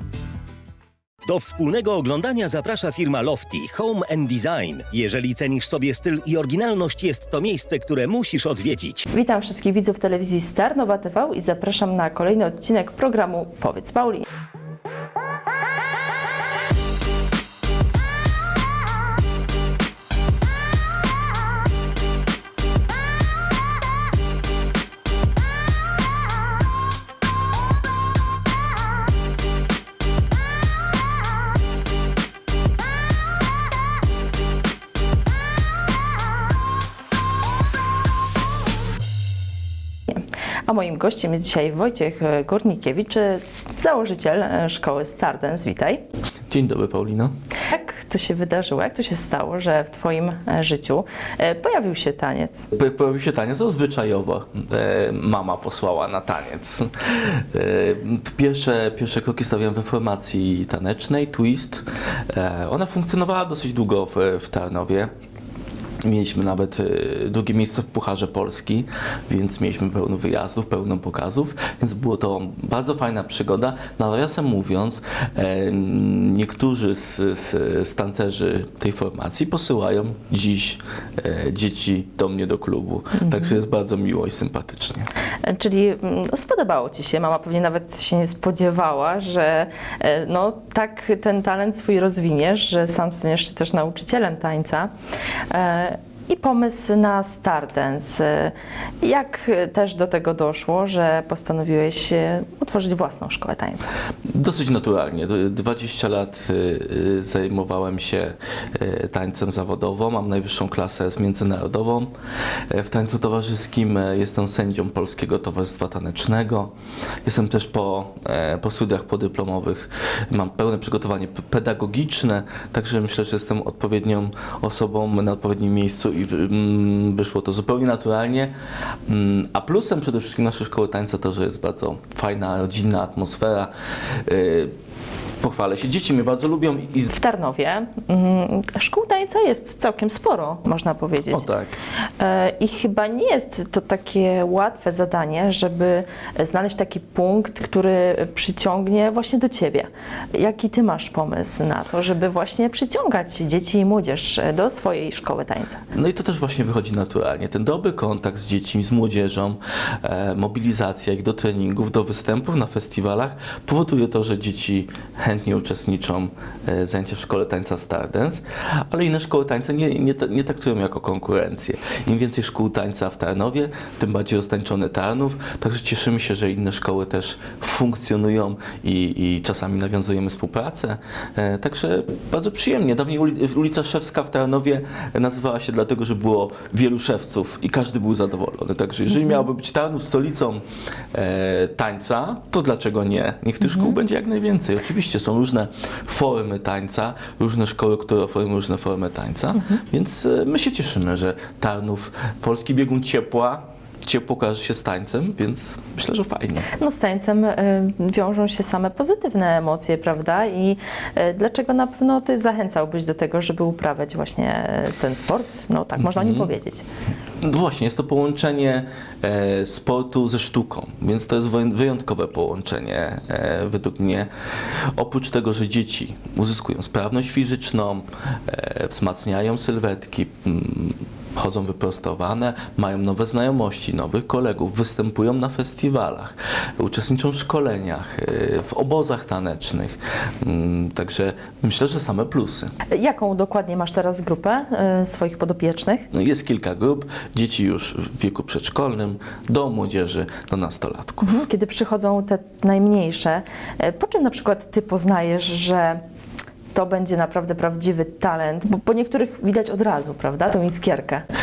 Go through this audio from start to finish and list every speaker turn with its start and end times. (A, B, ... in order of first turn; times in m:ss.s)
0:01.2-0:09.0 A
0:09.1-0:14.2 B
0:40.1-0:46.0 B
0:46.5-0:47.3 C
0:47.7-0:52.7 B
0:52.7-1:05.1 C
1:06.0-1:25.1 C
1:23.2-1:23.5 B
1:25.4-1:34.9 B
1:35.5-1:43.9 B
1:44.3-1:52.1 C
1:52.7-1:56.7 C
1:57.2-2:08.5 C
2:09.1-2:13.7 C
2:14.2-2:14.7 C
2:15.4-2:17.1 C
2:17.1-2:21.5 B
2:21.3-2:21.8 C
2:22.2-2:35.8 B
2:35.9-3:26.7 C
3:19.5-3:19.8 B
3:26.7-3:36.8 B
3:36.0-3:36.5 C
3:37.4-4:02.7 C
4:02.9-4:06.1 B
4:06.1-4:11.4 C
4:11.2-4:16.0 B
4:16.7-4:21.2 B